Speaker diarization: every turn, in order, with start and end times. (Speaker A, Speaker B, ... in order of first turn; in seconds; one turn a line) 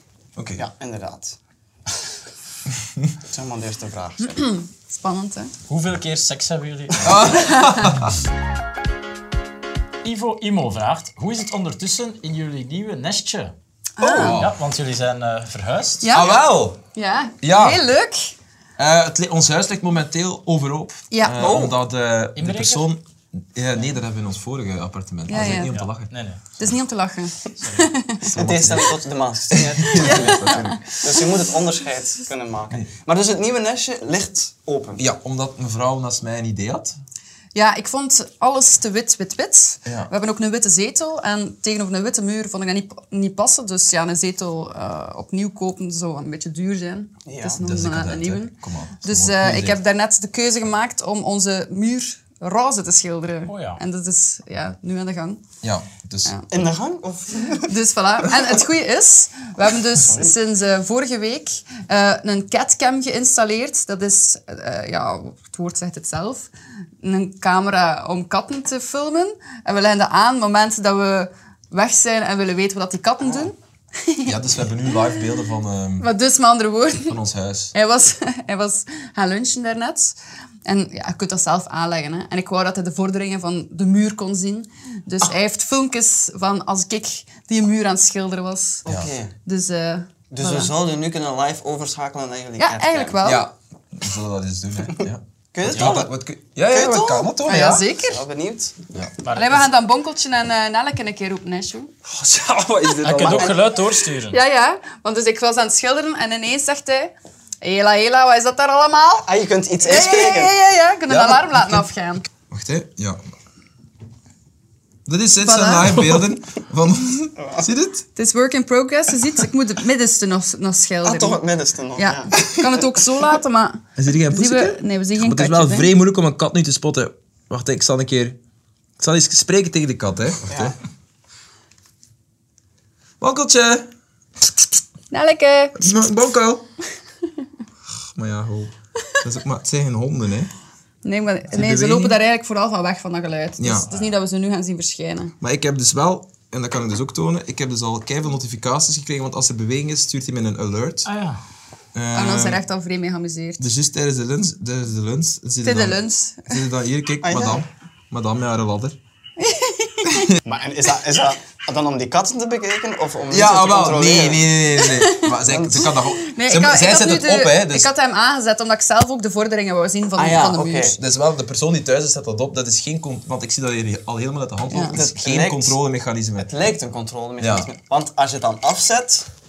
Speaker A: 0.3-0.7
Speaker B: 0.6-1.4
Speaker A: 2.7-3.1
Speaker B: 3.3-4.5
Speaker C: 4.3-5.5
Speaker D: 5.7-7.5
Speaker A: 7.0-8.2
Speaker C: 7.2-8.0
Speaker D: 10.0-13.5
Speaker C: 14.0-14.4
Speaker A: 14.0-14.5
Speaker D: 14.1-16.1
Speaker C: 16.0-18.3
Speaker A: 16.1-16.8
Speaker A: 17.4-17.8
Speaker A: 18.8-26.1
Speaker C: 21.1-21.5
Speaker B: 21.4-21.8
Speaker D: 22.4-22.9
Speaker C: 25.3-25.7
Speaker D: 25.4-26.4
Speaker C: 26.6-28.3
Speaker D: 27.6-27.9
Speaker A: 28.2-29.0
Speaker B: 28.3-35.0
Speaker A: 29.5-31.0
Speaker C: 29.8-30.8
Speaker A: 35.0-37.0
Speaker C: 37.5-55.4
Speaker A: 39.9-40.1
Speaker B: 47.2-47.6
Speaker A: 47.6-49.8
Speaker D: 53.5-53.8
Speaker A: 55.6-56.7
Speaker B: 56.5-57.7
Speaker C: 57.6-66.5
Speaker B: 59.9-60.3
Speaker C: 67.0-74.4
Speaker A: 74.2-76.1
Speaker C: 76.0-77.2
Speaker A: 77.1-77.7
Speaker C: 77.7-88.8
Speaker B: 88.8-89.3
Speaker A: 88.8-89.1
Speaker C: 89.4-90.7
Speaker B: 90.3-93.2
Speaker C: 92.6-93.5
Speaker A: 93.2-97.9
Speaker B: 95.5-97.4
Speaker D: 95.7-96.0
Speaker C: 97.4-98.2
Speaker B: 98.0-98.8
Speaker D: 99.2-99.6
Speaker C: 99.3-101.9
Speaker A: 102.1-103.6
Speaker D: 103.0-104.4
Speaker B: 103.2-103.7
Speaker C: 104.3-109.3
Speaker B: 109.2-110.6
Speaker C: 109.8-112.3
Speaker A: 111.1-111.8
Speaker A: 112.5-113.2
Speaker A: 115.0-118.0
Speaker C: 115.4-116.2
Speaker B: 117.3-117.7
Speaker C: 118.2-121.4
Speaker B: 121.0-122.5
Speaker C: 122.0-125.9
Speaker A: 124.0-128.4
Speaker A: 129.0-130.8
Speaker B: 130.5-130.8
Speaker A: 133.2-133.9
Speaker C: 135.1-136.0
Speaker A: 135.7-136.6
Speaker A: 137.9-140.5
Speaker C: 141.0-145.3
Speaker A: 141.5-142.2
Speaker A: 143.6-143.9
Speaker A: 145.4-151.1
Speaker D: 151.0-151.4
Speaker A: 151.9-152.6
Speaker C: 152.1-153.7
Speaker A: 153.6-159.0
Speaker C: 155.6-156.6
Speaker B: 157.2-157.6
Speaker C: 159.4-160.4
Speaker A: 160.1-160.4
Speaker B: 160.4-164.5
Speaker A: 163.3-167.9
Speaker C: 164.8-170.9
Speaker B: 165.4-165.9
Speaker B: 170.2-171.0
Speaker A: 170.8-176.5
Speaker C: 174.7-175.0
Speaker B: 174.9-175.8
Speaker B: 176.4-179.3
Speaker A: 177.4-177.7